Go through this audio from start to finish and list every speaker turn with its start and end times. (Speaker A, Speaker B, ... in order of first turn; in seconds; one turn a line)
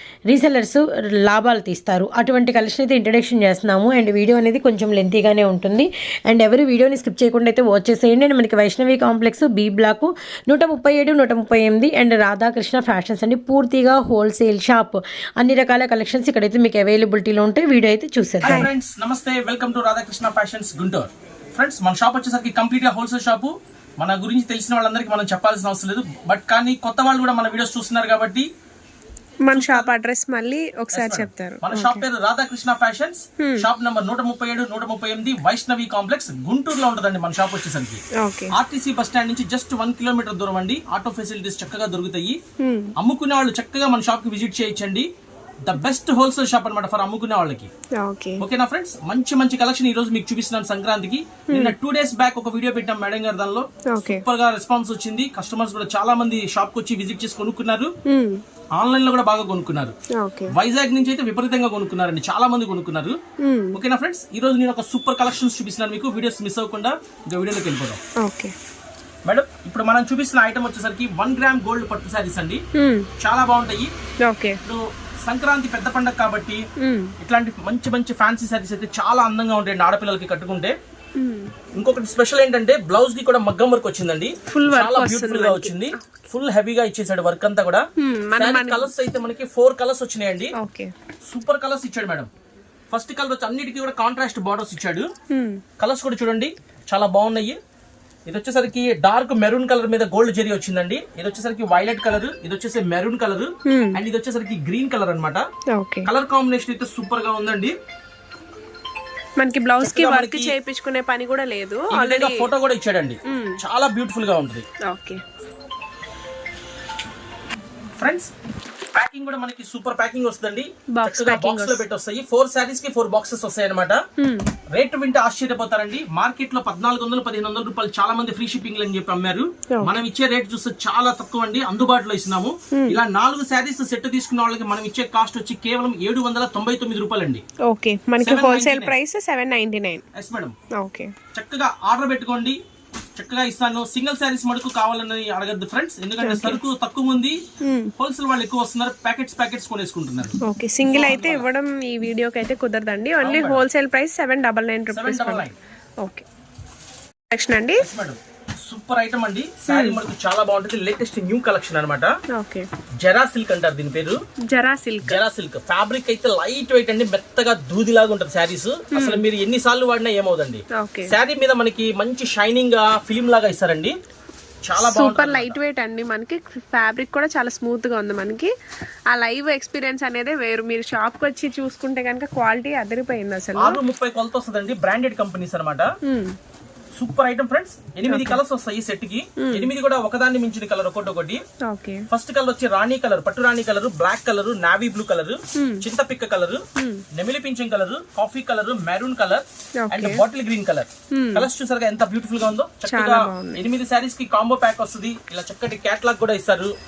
Speaker A: 0.3-18.7
Speaker B: 18.4-28.5
Speaker C: 18.4-18.7
Speaker C: 29.4-32.0
Speaker B: 29.5-29.9
Speaker B: 30.9-38.0
Speaker C: 33.4-33.7
Speaker C: 38.2-38.5
Speaker B: 38.5-42.4
Speaker C: 42.6-42.9
Speaker B: 43.0-45.1
Speaker B: 45.6-47.7
Speaker C: 47.9-48.4
Speaker B: 48.4-57.9
Speaker C: 51.5-51.8
Speaker C: 53.9-54.2
Speaker C: 58.0-58.4
Speaker B: 58.8-59.9
Speaker C: 60.1-60.5
Speaker B: 60.5-63.2
Speaker C: 63.4-63.8
Speaker B: 63.7-68.0
Speaker C: 68.2-68.5
Speaker B: 69.2-72.6
Speaker C: 72.8-73.1
Speaker B: 73.2-73.9
Speaker C: 74.2-74.6
Speaker B: 74.6-76.6
Speaker C: 76.8-77.1
Speaker B: 77.2-80.7
Speaker C: 81.2-81.5
Speaker B: 81.8-87.8
Speaker C: 84.5-86.2
Speaker C: 88.0-88.9
Speaker B: 88.4-90.5
Speaker C: 90.5-90.9
Speaker B: 91.3-92.3
Speaker B: 92.9-95.1
Speaker C: 95.3-95.6
Speaker B: 95.8-97.6
Speaker B: 98.3-105.4
Speaker C: 103.7-104.0
Speaker C: 105.7-106.1
Speaker B: 106.0-107.7
Speaker C: 109.4-112.5
Speaker B: 109.8-110.5
Speaker B: 111.9-114.7
Speaker C: 113.3-113.6
Speaker C: 114.8-115.2
Speaker B: 118.0-118.3
Speaker B: 118.9-124.0
Speaker C: 121.0-121.8
Speaker C: 124.2-124.5
Speaker B: 124.7-137.4
Speaker C: 132.7-133.0
Speaker C: 137.7-140.0
Speaker B: 138.2-138.9
Speaker B: 140.1-140.6
Speaker C: 140.7-141.1
Speaker B: 141.3-142.6
Speaker B: 143.2-147.4
Speaker C: 146.2-146.6
Speaker C: 147.6-147.9
Speaker B: 148.0-151.5
Speaker C: 150.4-155.4
Speaker B: 153.2-153.6
Speaker B: 154.9-155.6
Speaker C: 156.0-156.3
Speaker C: 157.3-157.9
Speaker B: 157.8-162.1
Speaker C: 159.6-160.0
Speaker C: 162.3-162.7
Speaker B: 163.0-164.2
Speaker C: 164.5-165.2
Speaker B: 165.1-173.9
Speaker C: 168.9-169.2
Speaker C: 170.7-171.1
Speaker B: 174.6-175.6
Speaker C: 174.8-178.5
Speaker C: 179.1-183.8
Speaker B: 183.6-185.9
Speaker C: 186.1-186.4
Speaker B: 187.0-191.4
Speaker C: 188.1-188.4
Speaker C: 189.4-189.7
Speaker C: 191.6-192.1
Speaker B: 192.1-206.7
Speaker C: 195.6-195.9
Speaker C: 196.8-197.1
Speaker C: 199.8-200.2
Speaker C: 201.1-201.5
Speaker C: 202.9-203.6